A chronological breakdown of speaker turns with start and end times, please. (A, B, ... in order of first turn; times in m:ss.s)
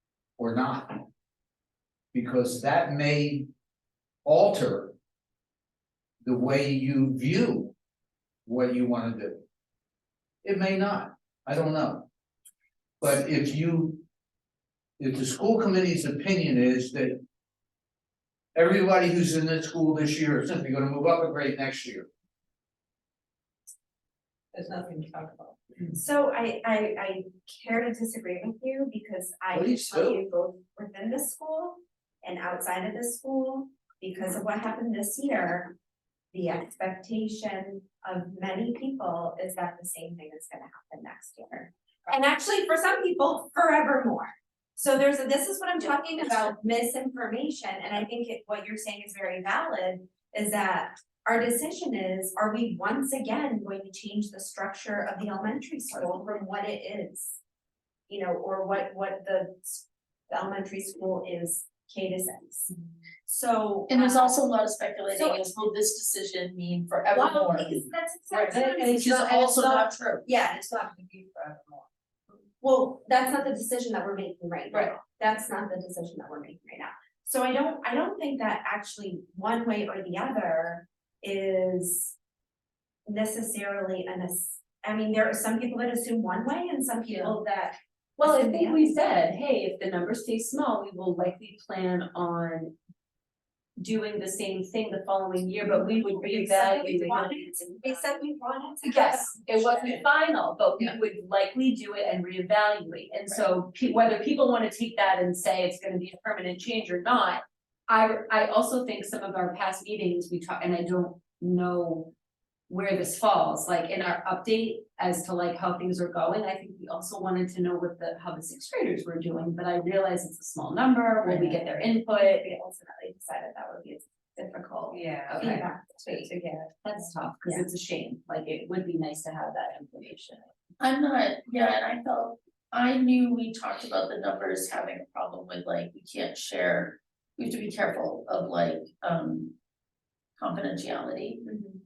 0:00.4-0:01.0 A
0:02.1-0:03.5 A
0:04.2-0:05.0 A
0:06.2-0:07.7 A
0:08.5-0:09.4 A
0:10.4-0:12.1 A
0:13.0-0:14.0 A
0:15.0-0:17.2 A
0:18.6-0:22.1 A
0:24.6-0:35.7 B
0:29.5-0:30.2 A
0:36.3-0:57.4 B
0:58.1-1:02.7 B
1:03.3-1:04.4 B
1:03.9-1:10.2 C
1:05.1-1:05.5 B
1:07.1-1:09.7 B
1:08.5-1:09.8 D
1:10.2-1:10.8 B
1:10.5-1:11.8 D
1:12.6-1:22.2 B
1:23.1-1:29.1 B
1:28.2-1:32.8 E
1:33.8-1:38.1 E
1:35.6-1:40.0 B
1:38.8-1:52.1 E
1:52.7-2:02.4 E
2:01.3-2:06.7 B
2:04.9-2:05.5 D
2:05.3-2:06.3 E
2:06.8-2:10.5 E
2:10.8-2:19.6 C
2:20.4-2:21.4 C